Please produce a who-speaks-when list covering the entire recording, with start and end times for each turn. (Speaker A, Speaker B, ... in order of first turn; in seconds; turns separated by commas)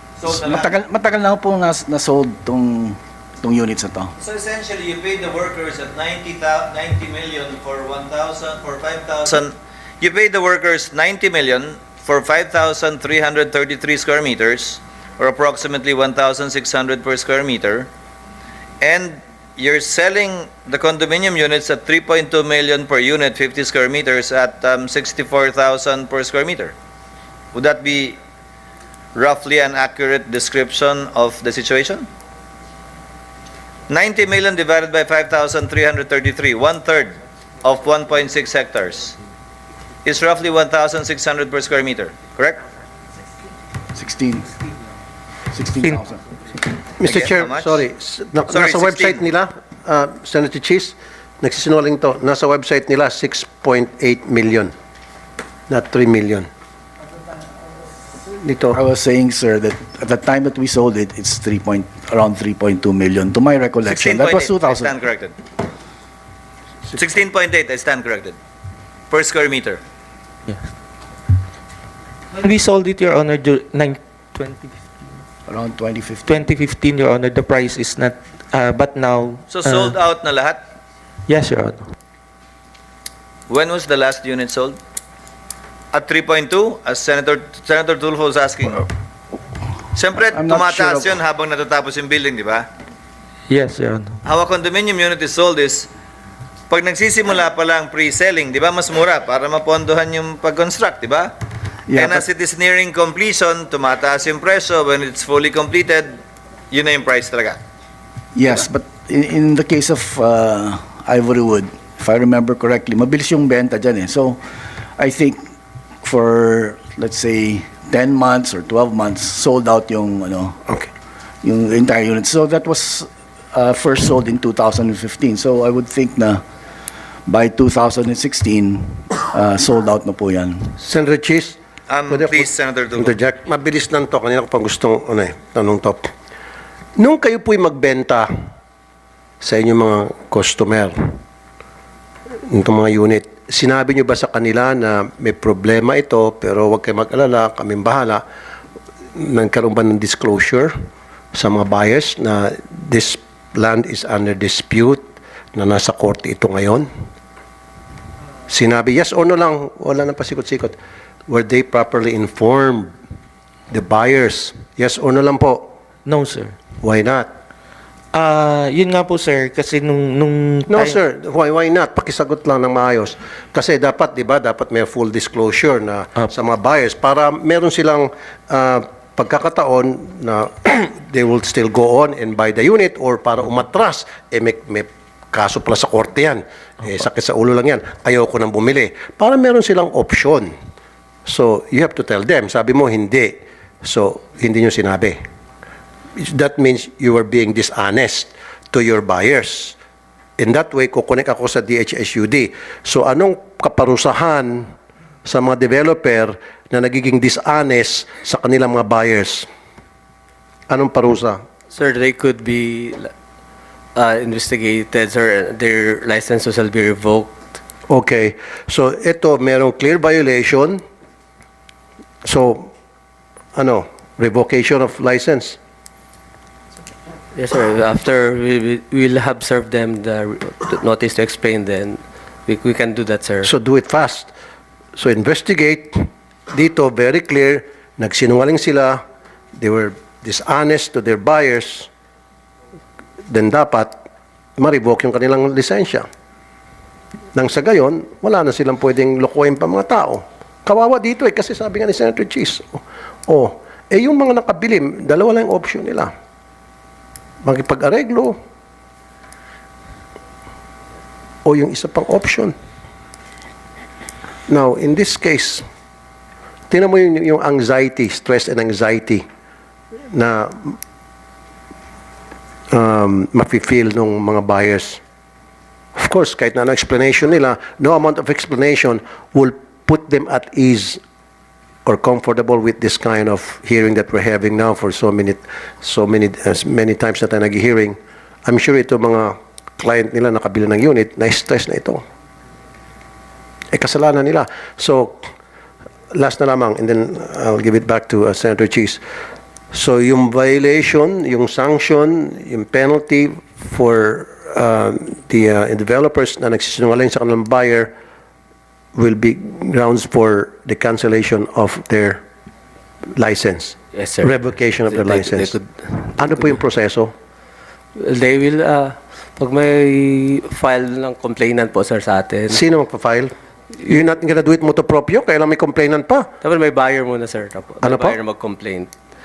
Speaker A: 0.2-0.8, Speaker B: 0.2-4.1, Speaker A: 4.2-17.9, Speaker A: 18.8-26.7, Speaker A: 27.5-28.2, Speaker A: 29.1-32.1, Speaker A: 33.9-39.2, Speaker A: 40.0-42.6, Speaker B: 44.0-44.5, Speaker B: 45.5-46.2, Speaker C: 47.0-54.7, Speaker A: 47.0-47.8, Speaker A: 48.5-49.2, Speaker C: 55.7-56.5, Speaker C: 58.3-58.8, Speaker B: 58.7-64.9, Speaker A: 63.9-65.4, Speaker A: 66.9-68.4, Speaker A: 69.1-69.8, Speaker D: 72.3-74.8, Speaker B: 75.5-76.4, Speaker D: 76.2-80.0, Speaker A: 79.5-80.6, Speaker D: 81.3-81.9, Speaker A: 83.5-84.8, Speaker A: 85.9-88.9, Speaker A: 90.0-92.7, Speaker B: 90.3-91.2, Speaker D: 93.5-94.2, Speaker A: 94.2-95.9, Speaker A: 96.7-101.3, Speaker B: 101.9-102.2, Speaker A: 101.9-106.2, Speaker A: 106.7-107.6, Speaker B: 108.3-114.4, Speaker B: 115.0-115.5, Speaker B: 116.0-120.6, Speaker B: 121.4-126.4, Speaker B: 127.3-130.8, Speaker C: 130.8-131.6, Speaker A: 131.9-133.2, Speaker C: 132.1-136.1, Speaker C: 137.0-138.3, Speaker C: 139.4-141.2, Speaker C: 142.5-148.2, Speaker C: 149.2-150.8, Speaker C: 151.3-156.9, Speaker C: 158.5-160.8, Speaker C: 161.3-162.9, Speaker C: 163.7-165.7, Speaker D: 166.1-166.6, Speaker C: 166.8-167.3, Speaker D: 168.1-171.0, Speaker C: 170.7-190.5, Speaker C: 191.2-195.2, Speaker C: 196.2-199.8, Speaker C: 200.4-204.7, Speaker C: 205.2-209.5, Speaker C: 210.7-211.4, Speaker E: 211.7-213.1, Speaker E: 214.0-217.5, Speaker C: 217.9-220.8, Speaker C: 222.2-222.7, Speaker C: 223.6-225.6, Speaker E: 227.4-233.5, Speaker C: 233.4-234.3, Speaker C: 235.0-239.0, Speaker C: 239.6-241.9, Speaker C: 243.3-244.0, Speaker C: 244.6-246.1, Speaker C: 247.3-256.1, Speaker C: 257.4-258.4, Speaker C: 261.4-262.5, Speaker C: 264.5-265.7, Speaker C: 266.7-269.2, Speaker C: 270.1-270.8, Speaker C: 272.7-275.0, Speaker C: 276.0-281.0, Speaker C: 281.9-292.0, Speaker C: 293.7-295.3, Speaker C: 296.1-299.0, Speaker C: 299.7-307.9, Speaker C: 308.9-312.2, Speaker C: 313.2-315.6, Speaker E: 314.0-314.3, Speaker E: 314.9-316.2, Speaker C: 316.2-317.1, Speaker E: 318.0-322.6, Speaker C: 322.5-323.3, Speaker C: 323.9-326.3, Speaker E: 326.4-328.9, Speaker C: 327.8-328.2